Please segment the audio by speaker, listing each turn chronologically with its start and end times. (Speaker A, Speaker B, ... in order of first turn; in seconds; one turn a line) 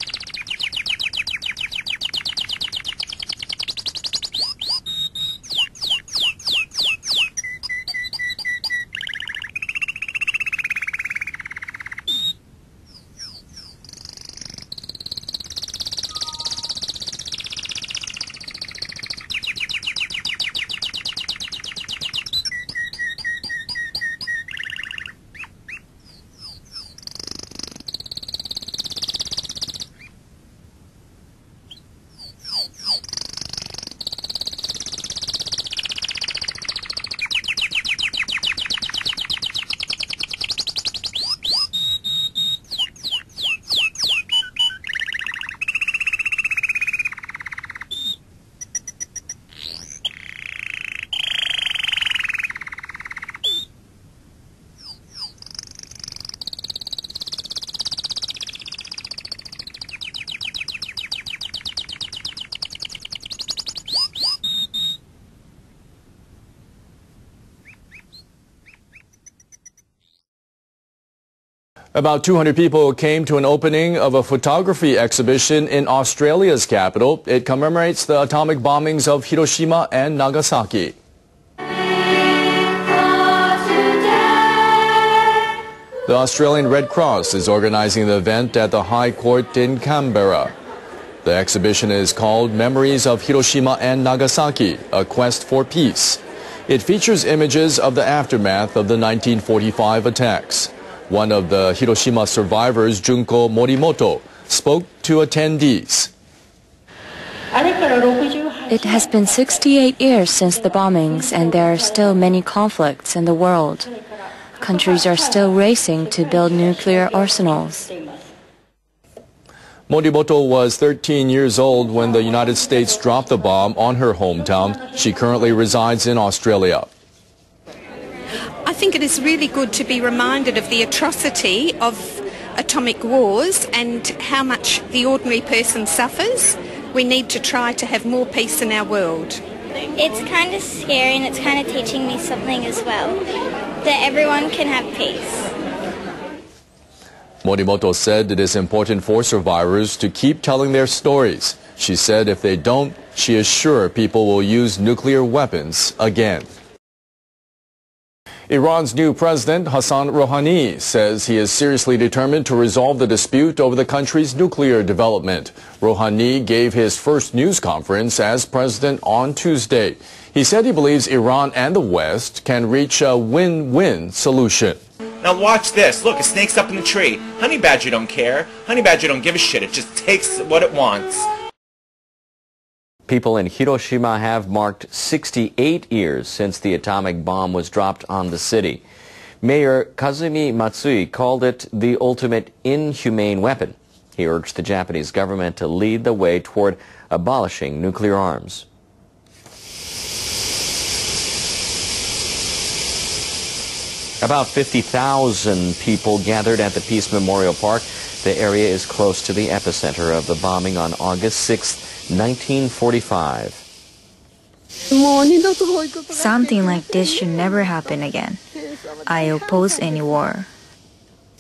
Speaker A: 72.0-81.0
Speaker A: 86.1-90.5
Speaker A: 91.2-106.1
Speaker B: 108.7-113.9
Speaker B: 114.6-117.9
Speaker A: 119.9-126.9
Speaker C: 128.6-139.4
Speaker D: 140.0-143.2
Speaker D: 143.8-145.5
Speaker A: 147.4-156.5
Speaker A: 158.5-174.8
Speaker E: 175.2-181.3
Speaker F: 183.1-188.8
Speaker F: 189.4-198.7
Speaker F: 204.2-213.6
Speaker B: 216.1-218.4
Speaker B: 219.1-220.5